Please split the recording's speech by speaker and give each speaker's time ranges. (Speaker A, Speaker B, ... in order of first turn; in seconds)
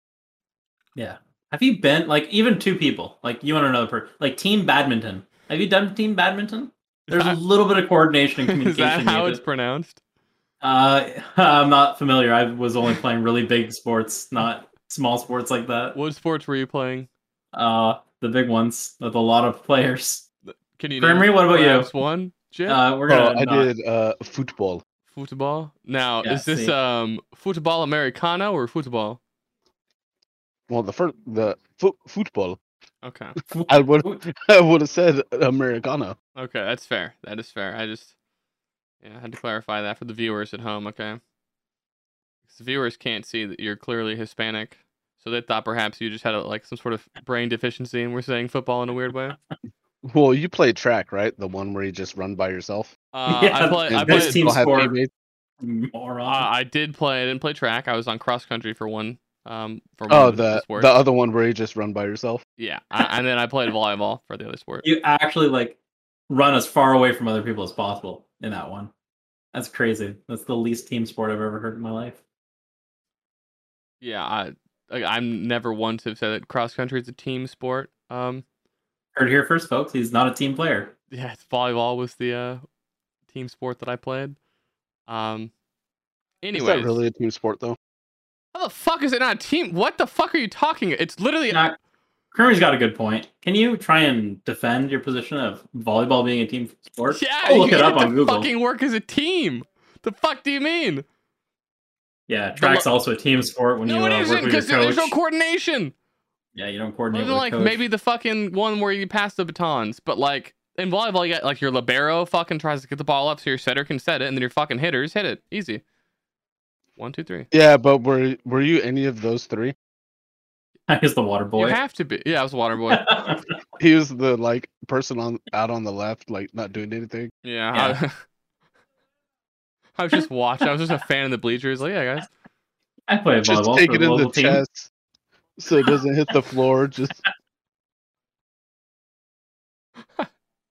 Speaker A: 0.9-9.4, 10.6-16.0, 17.5-20.2, 21.0-21.9, 22.7-23.7, 26.2-26.7, 33.5-34.2, 53.3-54.9, 55.6-56.5, 64.8-65.8, 66.3-68.9, 69.5-72.2, 79.1-80.9, 92.3-98.5, 102.3-105.1, 106.5-107.8, 120.9-121.8, 122.9-123.4, 127.7-128.0, 133.1-134.6
Speaker B: 7.1-7.4, 8.4-10.0, 15.9-17.1, 20.5-22.8, 25.1-29.2, 33.0-33.3, 36.4-38.1, 39.0-41.2, 42.5-49.4, 53.1-54.5, 56.2-60.9, 62.6-64.8, 74.0-78.4, 81.1-82.6, 83.3-84.4, 85.1-85.5, 86.4-87.0, 88.5-91.6, 97.1-101.0, 102.5-102.8, 103.8-105.9, 107.1-115.8, 117.0-117.5, 121.6-123.2, 127.4-128.2, 129.9-132.3
Speaker C: 23.1-24.8, 30.7-32.6, 33.7-36.1, 50.0-52.9, 53.9-55.1, 60.1-62.4, 86.5-87.8, 117.5-119.7, 123.8-127.3, 133.4-134.9, 135.6-137.2